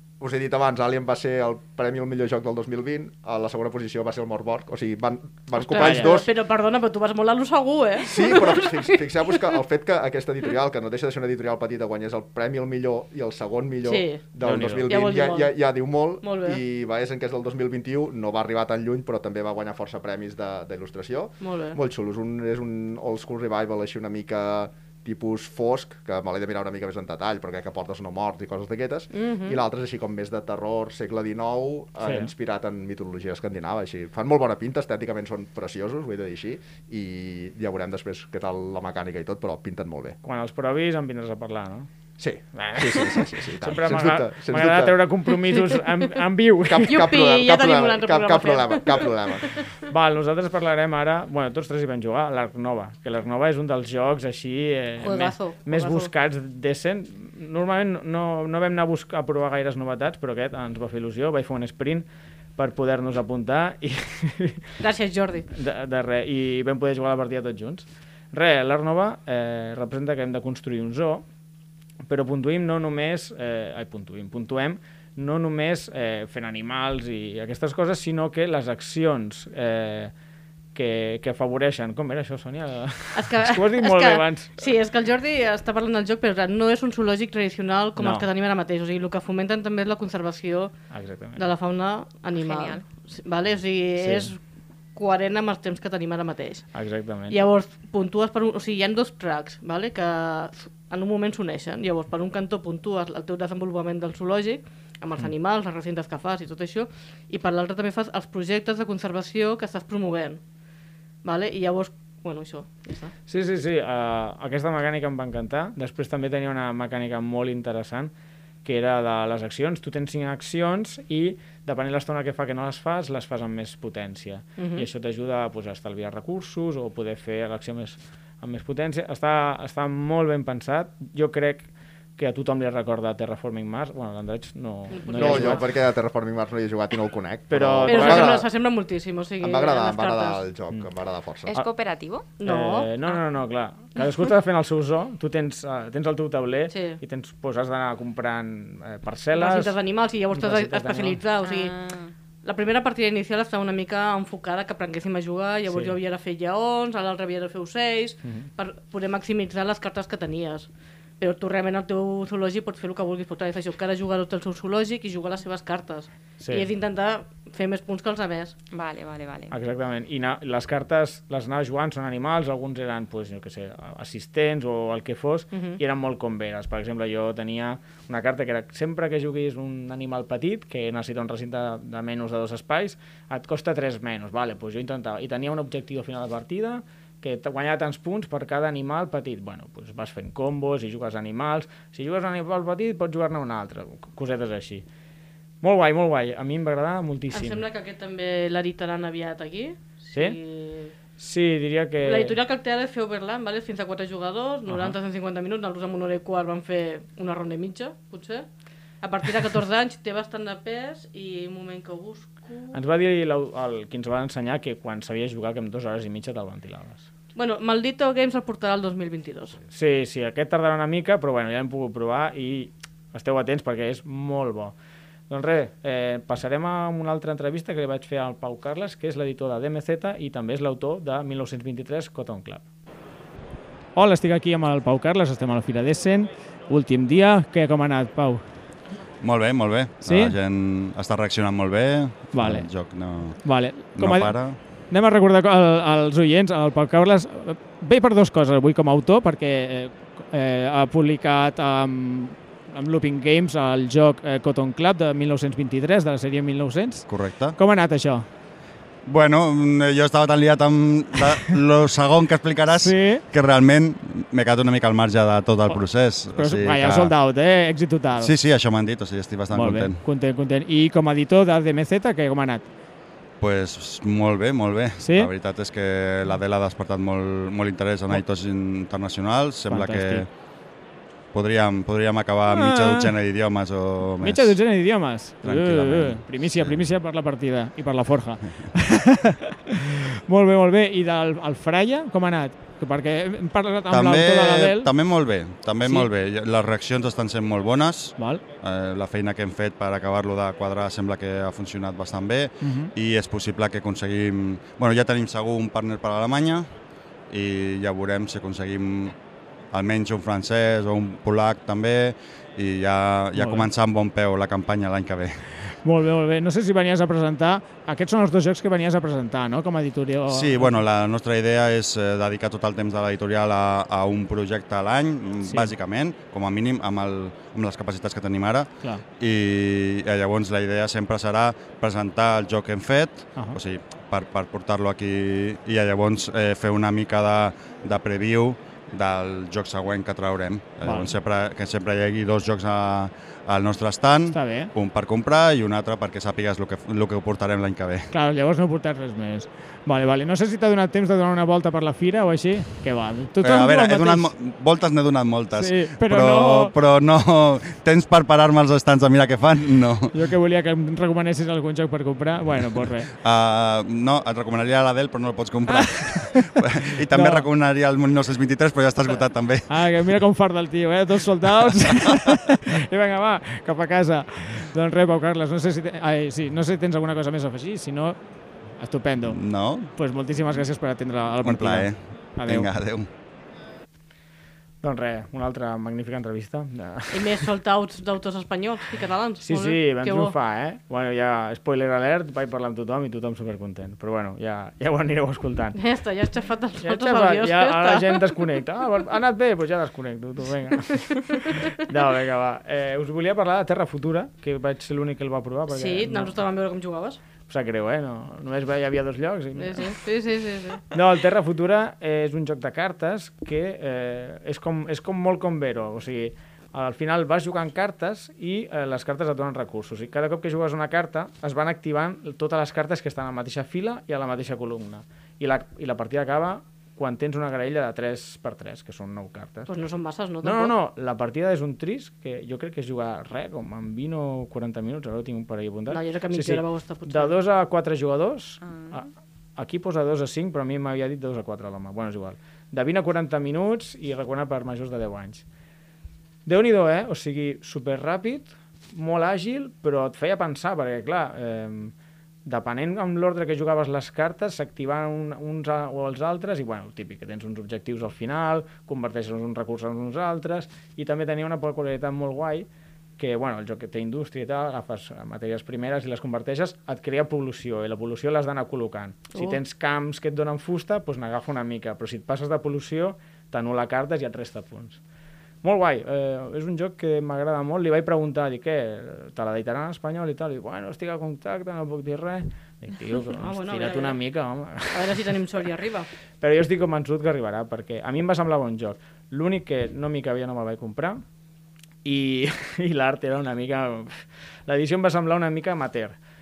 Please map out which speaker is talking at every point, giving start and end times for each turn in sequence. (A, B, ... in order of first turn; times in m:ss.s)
0:00.2-0:06.3 A
0:05.6-0:09.5 B
0:05.8-0:06.2 C
0:08.0-0:40.2 A
0:13.9-0:14.2 B
0:14.4-0:14.9 C
0:14.9-0:15.5 B
0:16.2-0:16.6 B
0:21.4-0:21.8 B
0:29.1-0:29.6 B
0:32.0-0:32.3 C
0:40.2-0:41.9 C
0:42.2-0:45.0 A
0:42.6-0:47.1 C
0:46.6-0:49.6 A
0:46.9-0:49.1 B
0:49.9-1:02.0 C
0:55.0-0:56.1 B
1:02.6-1:04.8 C
1:04.8-1:05.5 B
1:05.5-1:11.2 C
1:12.1-1:20.1 C
1:20.8-1:24.6 C
1:23.2-1:30.7 B
1:28.0-1:28.3 C
1:30.9-1:31.5 C
1:31.4-1:34.4 B
1:32.4-1:32.8 D
1:34.0-1:34.3 C
1:35.0-1:36.7 B
1:36.7-1:37.4 C
1:37.3-1:50.4 B
1:51.2-1:53.1 B
1:53.3-1:58.1 C
1:58.6-2:15.6 C
2:04.6-2:04.9 B
2:14.9-2:15.6 B
2:15.1-2:18.5 A
2:17.5-2:18.4 C
2:17.9-2:20.4 B
2:19.4-2:21.6 A
2:21.5-2:22.3 D
2:22.4-2:22.9 B
2:22.4-2:29.8 C
2:26.7-2:27.0 B
2:29.3-2:31.7 B
2:30.3-2:31.2 C
2:31.4-2:32.1 D
2:32.4-2:40.7 B
2:35.7-2:36.0 C
2:38.2-2:38.5 C
2:41.2-2:48.5 B
2:46.4-2:46.7 C
2:48.7-2:49.5 D
2:49.5-3:14.8 C
2:55.5-2:55.8 B
3:15.6-3:17.6 C
3:17.3-3:20.9 B
3:21.2-3:22.4 C
3:22.0-3:28.5 B
3:24.7-3:25.0 C
3:29.0-3:32.8 B
3:32.7-3:37.0 C
3:37.4-3:39.6 B
3:39.7-3:44.8 C
3:45.3-3:52.6 C
3:54.0-3:58.4 C
3:59.2-4:04.6 E
4:00.0-4:00.4 C
4:02.3-4:02.7 C
4:03.4-4:04.4 C
4:04.9-4:18.3 C
4:17.1-4:17.6 E
4:19.1-4:27.2 E
4:22.8-4:23.2 C
4:26.3-4:28.3 C
4:28.2-4:30.0 E
4:29.5-4:32.7 C
4:33.4-4:40.3 E
4:35.0-4:35.3 C
4:39.7-4:40.2 C
4:41.3-4:44.6 E
4:42.5-4:43.1 C
4:44.2-4:54.9 C
4:45.4-4:46.8 E
4:53.9-5:06.7 E
4:58.2-4:58.4 C
5:02.6-5:02.9 C
5:07.3-5:09.2 E
5:09.7-5:15.5 E
5:13.4-5:13.7 C
5:15.8-5:20.8 C
5:20.3-5:48.1 E
5:25.4-5:25.7 C
5:40.8-5:41.1 C
5:44.3-5:44.7 C
5:48.1-5:54.3 C
5:53.4-6:00.2 E
5:55.5-5:56.7 C
6:00.1-6:03.1 C
6:03.2-6:09.8 E
6:05.7-6:06.5 C
6:07.1-6:07.4 C
6:09.7-6:18.2 C
6:11.9-6:12.3 E
6:18.8-6:19.4 C
6:19.3-6:19.9 E
6:19.9-6:22.7 C
6:21.4-6:23.1 E
6:24.8-6:27.5 C
6:27.1-6:30.4 B
6:29.4-6:35.8 C
6:35.8-6:38.3 B
6:36.8-6:46.4 C
6:45.7-6:47.2 B
6:47.5-6:49.9 C
6:49.6-6:50.8 B
6:50.9-7:09.7 C
7:09.7-7:10.7 B
7:10.4-7:25.4 C
7:15.9-7:17.4 B
7:18.6-7:19.0 D
7:26.5-7:31.9 C
7:32.4-7:42.7 C
7:43.2-7:55.0 C
7:55.6-8:05.3 C
8:03.4-8:04.2 B
8:04.9-8:06.1 B
8:06.4-8:11.2 C
8:12.0-8:16.2 C